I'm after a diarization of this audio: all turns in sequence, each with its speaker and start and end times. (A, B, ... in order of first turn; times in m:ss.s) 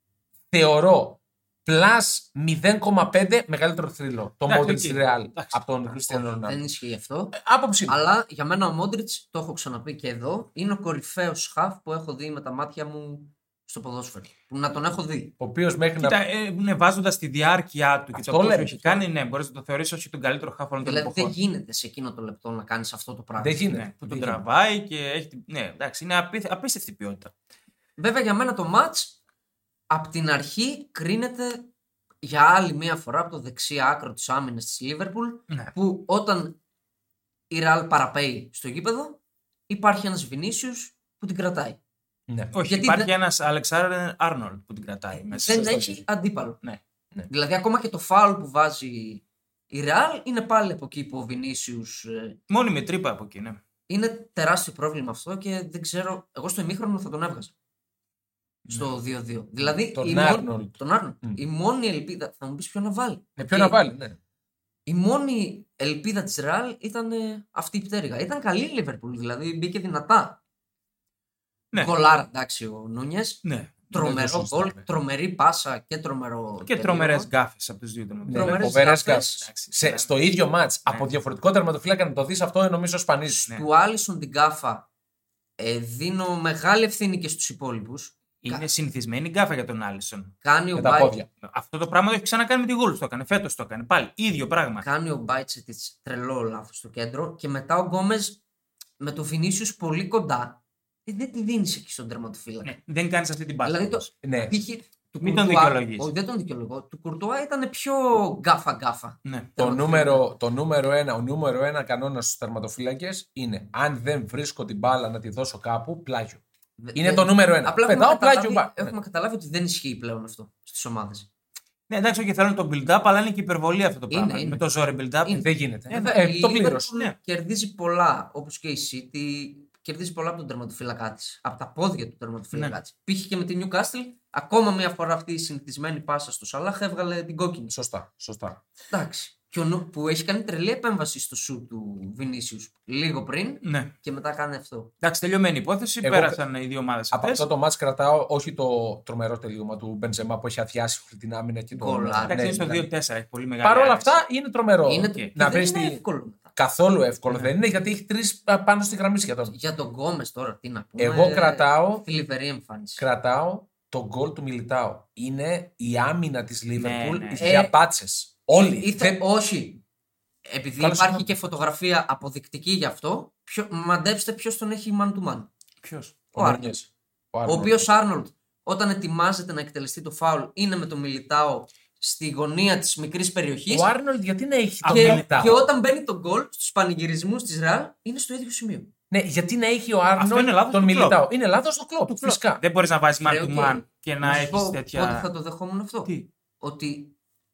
0:00.5-0:06.6 A
0:04.4-0:05.6 B
0:06.1-0:07.4 C
0:07.3-0:08.0 A
0:07.9-0:15.3 C
0:15.4-0:16.2 A
0:16.0-0:21.3 B
0:18.1-0:19.0 A
0:20.8-0:23.6 C
0:23.4-0:24.4 A
0:23.7-0:27.3 B
0:28.0-0:29.2 C
0:29.9-0:31.7 C
0:32.2-0:36.6 C
0:37.5-0:41.8 C
0:42.3-0:42.5 A
0:42.5-0:45.9 B
0:42.6-0:43.1 C
0:45.3-0:46.6 C
0:45.4-0:46.0 A
0:47.3-0:52.4 C
0:52.5-0:53.6 B
0:53.9-0:57.5 C
0:58.7-1:03.8 C
0:59.9-1:01.4 A
1:03.4-1:04.2 A
1:04.8-1:10.4 C
1:11.7-1:17.3 C
1:13.4-1:13.8 B
1:13.9-1:14.8 A
1:16.6-1:20.1 B
1:18.3-1:23.5 A
1:18.3-1:19.4 C
1:23.4-1:24.9 C
1:25.6-1:28.6 C
1:28.4-1:30.3 B
1:30.4-1:31.2 C
1:30.7-1:31.3 A
1:31.4-1:34.8 B
1:34.8-1:38.4 C
1:39.0-1:42.7 C
1:42.6-1:44.1 B
1:43.6-1:50.2 C
1:44.2-1:44.6 A
1:45.2-1:46.1 B
1:49.2-1:49.5 B
1:49.6-1:56.4 A
1:56.8-2:01.3 C
1:56.9-1:58.9 A
2:01.9-2:05.5 B
2:04.1-2:04.6 C
2:05.2-2:17.7 C
2:05.3-2:06.9 A
2:17.7-2:18.6 A
2:18.9-2:24.9 C
2:23.6-2:23.9 B
2:25.0-2:27.4 B
2:26.0-2:26.4 A
2:27.1-2:32.9 A
2:31.7-2:32.4 C
2:32.3-2:34.2 B
2:33.6-2:36.0 A
2:34.8-2:36.5 C
2:36.6-2:39.5 A
2:39.5-2:43.0 C
2:41.0-2:42.0 A
2:43.0-2:49.2 A
2:46.8-2:47.6 B
2:47.4-2:47.7 C
2:48.5-2:49.8 C
2:50.4-2:55.5 C
2:50.8-2:51.3 A
2:56.1-2:57.8 A
2:56.3-2:56.8 C
2:57.4-3:03.9 C
3:03.7-3:05.6 A
3:04.8-3:05.6 B
3:04.9-3:08.9 C
3:09.1-3:12.6 A
3:10.2-3:11.2 B
3:12.1-3:15.3 B
3:13.2-3:17.1 C